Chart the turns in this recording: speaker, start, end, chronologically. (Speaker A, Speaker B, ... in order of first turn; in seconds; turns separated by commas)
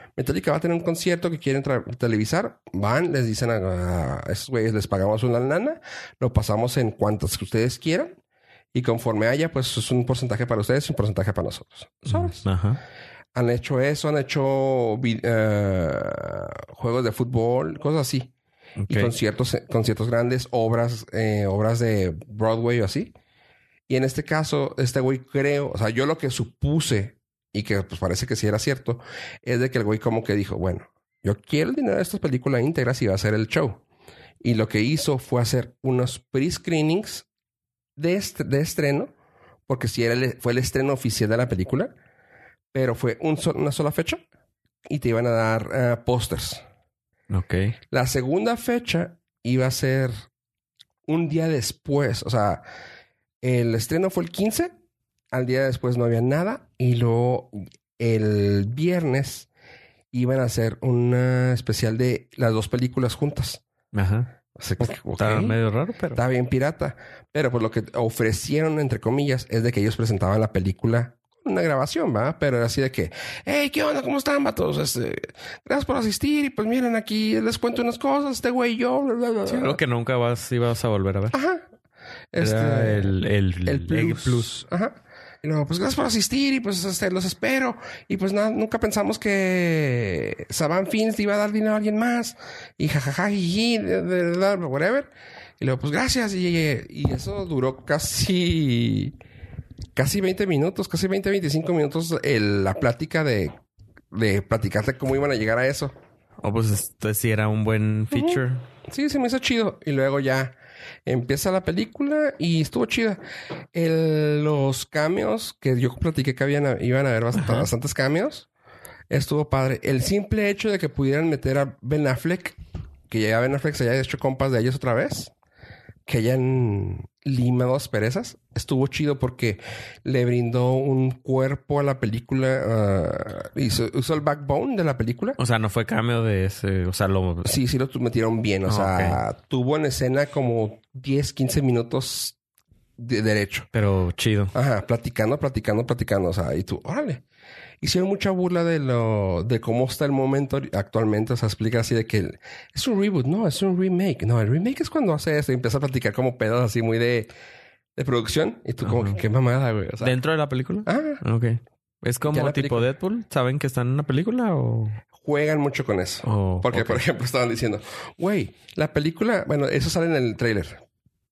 Speaker A: 0.2-8.1, Speaker A: 8.7-12.5, Speaker B: 12.1-12.8, Speaker A: 13.3-18.3, Speaker B: 18.8-19.1, Speaker A: 18.9-23.1, Speaker A: 23.9-33.8, Speaker A: 34.4-37.3, Speaker A: 38.0-39.1, Speaker A: 39.7-41.9, Speaker A: 42.7-44.2, Speaker A: 44.9-46.6, Speaker B: 47.3-47.8, Speaker A: 47.9-50.1, Speaker A: 51.1-52.6, Speaker A: 53.4-54.7, Speaker A: 55.3-59.5, Speaker A: 60.1-63.6, Speaker B: 63.9-64.3, Speaker A: 64.6-65.6, Speaker B: 65.2-66.2, Speaker A: 66.2-79.8, Speaker B: 79.5-81.3, Speaker A: 81.3-81.7, Speaker A: 82.3-83.2, Speaker B: 82.4-84.6, Speaker A: 83.7-99.1, Speaker A: 100.0-103.6, Speaker A: 104.1-106.0, Speaker B: 106.4-108.7, Speaker A: 108.1-110.5, Speaker A: 111.1-113.2, Speaker A: 113.7-118.5, Speaker A: 119.1-122.6, Speaker A: 123.1-125.3, Speaker A: 126.1-135.4, Speaker B: 135.4-137.5, Speaker A: 137.4-142.4, Speaker B: 138.7-139.2, Speaker A: 143.0-143.7, Speaker B: 143.7-144.5, Speaker A: 144.5-147.2, Speaker A: 147.8-157.3, Speaker A: 158.0-160.2, Speaker B: 158.8-159.2, Speaker B: 160.0-165.0, Speaker A: 160.8-161.2, Speaker A: 162.3-162.9, Speaker A: 165.2-170.8, Speaker B: 166.2-167.0